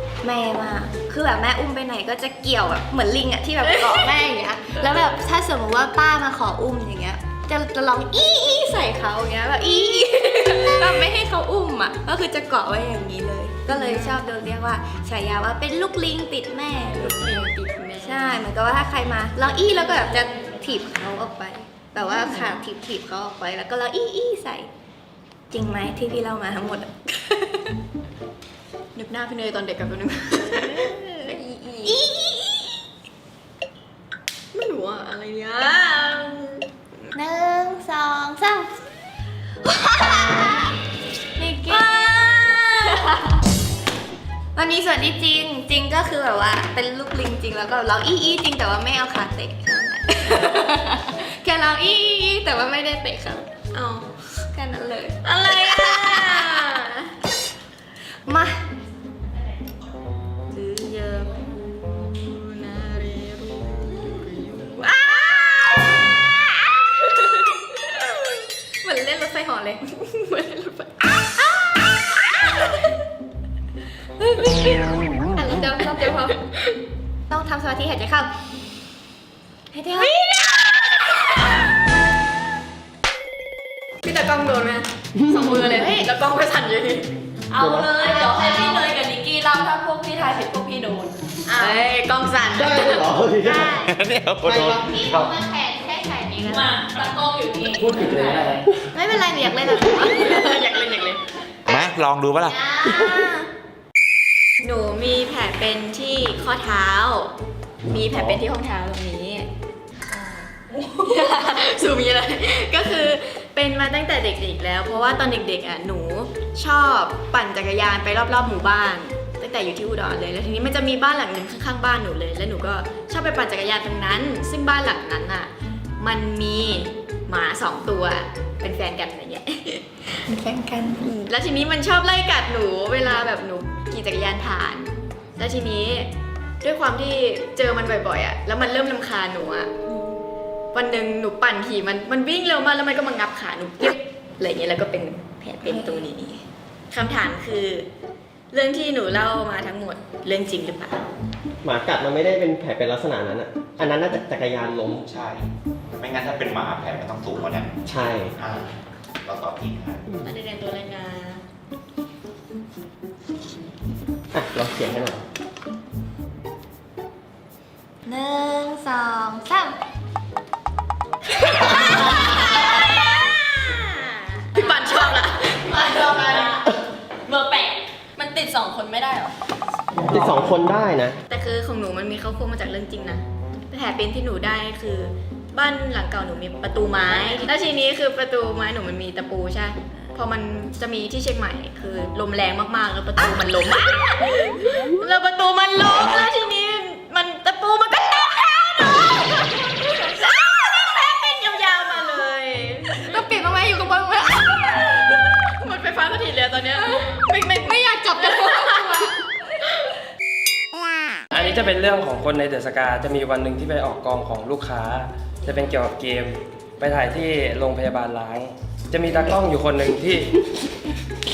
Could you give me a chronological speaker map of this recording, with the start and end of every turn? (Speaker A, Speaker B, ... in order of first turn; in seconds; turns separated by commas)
Speaker A: 0.2-17.4, Speaker B: 13.7-14.2, Speaker B: 16.9-18.4, Speaker A: 18.0-24.7, Speaker B: 22.0-22.6, Speaker A: 25.5-27.8, Speaker B: 28.9-32.0, Speaker A: 30.4-32.7, Speaker B: 34.5-37.1, Speaker A: 37.1-38.7, Speaker A: 39.6-40.8, Speaker A: 41.4-43.4, Speaker C: 41.7-42.9, Speaker B: 41.7-42.0, Speaker A: 44.5-53.5, Speaker B: 53.7-54.4, Speaker A: 54.5-56.8, Speaker B: 55.2-57.1, Speaker A: 58.2-58.6, Speaker A: 60.5-61.3, Speaker B: 62.0-65.6, Speaker A: 65.0-65.4, Speaker A: 68.8-69.8, Speaker B: 69.9-71.1, Speaker A: 75.2-76.5, Speaker A: 77.3-78.3, Speaker A: 79.7-80.2, Speaker B: 80.0-80.3, Speaker B: 84.0-87.1, Speaker C: 87.5-91.1, Speaker D: 87.6-87.9, Speaker A: 88.0-88.8, Speaker B: 91.5-93.2, Speaker A: 91.5-91.8, Speaker D: 92.5-95.2, Speaker A: 93.4-93.9, Speaker E: 93.5-95.3, Speaker A: 94.7-96.7, Speaker C: 96.5-98.5, Speaker F: 97.8-98.7, Speaker A: 98.9-100.6, Speaker B: 99.9-101.2, Speaker E: 101.7-102.6, Speaker A: 102.5-103.5, Speaker B: 104.6-107.3, Speaker B: 107.9-109.5, Speaker B: 111.0-130.2, Speaker A: 130.3-131.0, Speaker B: 131.0-136.1, Speaker B: 136.6-139.7, Speaker B: 140.7-147.9, Speaker A: 145.6-146.0, Speaker B: 148.5-151.1, Speaker D: 151.6-155.0, Speaker E: 154.9-158.7, Speaker D: 157.8-158.3, Speaker E: 159.2-160.1, Speaker B: 160.2-161.4, Speaker D: 164.3-165.2, Speaker A: 168.1-169.8, Speaker B: 171.7-176.6, Speaker C: 171.7-172.7, Speaker C: 174.5-179.3, Speaker D: 179.9-181.2, Speaker B: 181.3-203.3, Speaker A: 203.0-205.2, Speaker B: 205.1-209.2, Speaker A: 206.8-209.2, Speaker F: 211.3-220.4